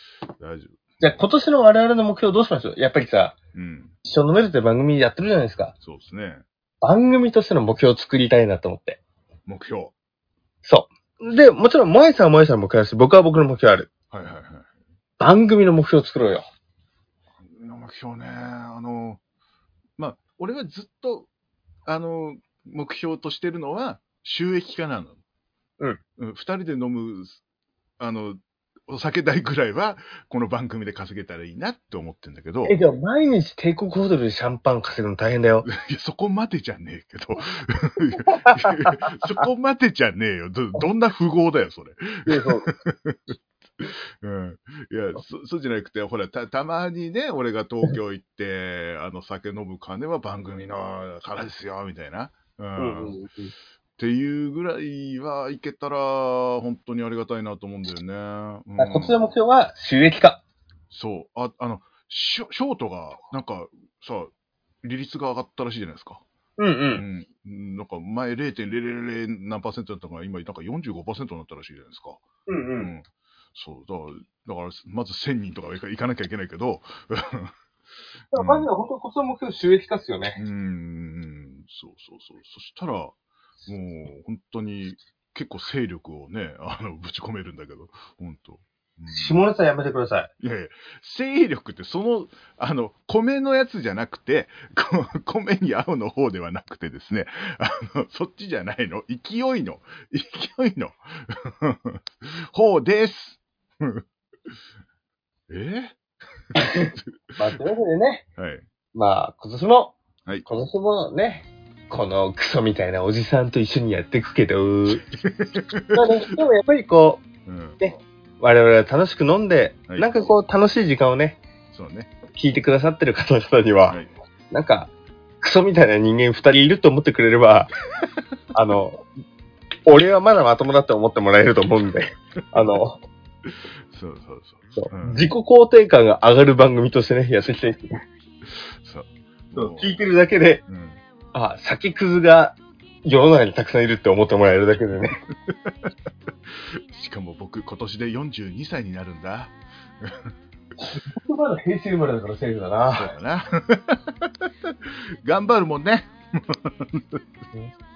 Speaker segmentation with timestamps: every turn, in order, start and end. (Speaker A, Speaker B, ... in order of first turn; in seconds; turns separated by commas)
Speaker A: 0.4-1.2, Speaker B: 1.0-3.4, Speaker A: 3.5-3.9, Speaker B: 4.0-5.7, Speaker A: 5.8-6.4, Speaker B: 6.8-9.0, Speaker A: 9.5-9.9, Speaker B: 10.6-13.9, Speaker A: 14.1-14.7, Speaker B: 15.2-16.4, Speaker A: 17.4-19.2, Speaker A: 20.0-21.3, Speaker A: 21.9-25.2, Speaker A: 26.2-27.4, Speaker A: 28.0-32.9, Speaker B: 32.6-35.7, Speaker A: 35.6-53.2, Speaker B: 38.3-39.4, Speaker B: 42.3-42.7, Speaker B: 52.8-53.5, Speaker A: 54.0-59.2, Speaker B: 58.8-60.4, Speaker A: 60.9-66.2, Speaker B: 66.6-67.0, Speaker A: 67.0-72.2, Speaker B: 72.5-72.9, Speaker A: 72.8-77.5, Speaker B: 78.3-80.4, Speaker A: 78.3-78.7, Speaker A: 80.3-83.1, Speaker A: 83.7-89.4, Speaker B: 89.1-90.3, Speaker A: 90.4-104.0, Speaker A: 105.5-105.9, Speaker B: 106.5-108.2, Speaker A: 106.9-107.3, Speaker A: 108.4-108.6, Speaker B: 108.9-115.0, Speaker A: 115.1-116.2, Speaker B: 115.9-117.2, Speaker A: 117.5-117.8, Speaker B: 117.8-121.4, Speaker A: 121.7-122.1, Speaker B: 122.3-124.0, Speaker B: 124.5-127.7, Speaker B: 128.5-129.0, Speaker B: 129.8-133.0, Speaker A: 133.4-135.3, Speaker B: 134.8-138.0, Speaker A: 138.4-140.0, Speaker B: 139.6-140.6, Speaker A: 140.7-141.0, Speaker B: 141.3-145.2, Speaker A: 145.5-145.9, Speaker A: 146.5-150.3, Speaker B: 150.9-153.1, Speaker A: 152.9-157.2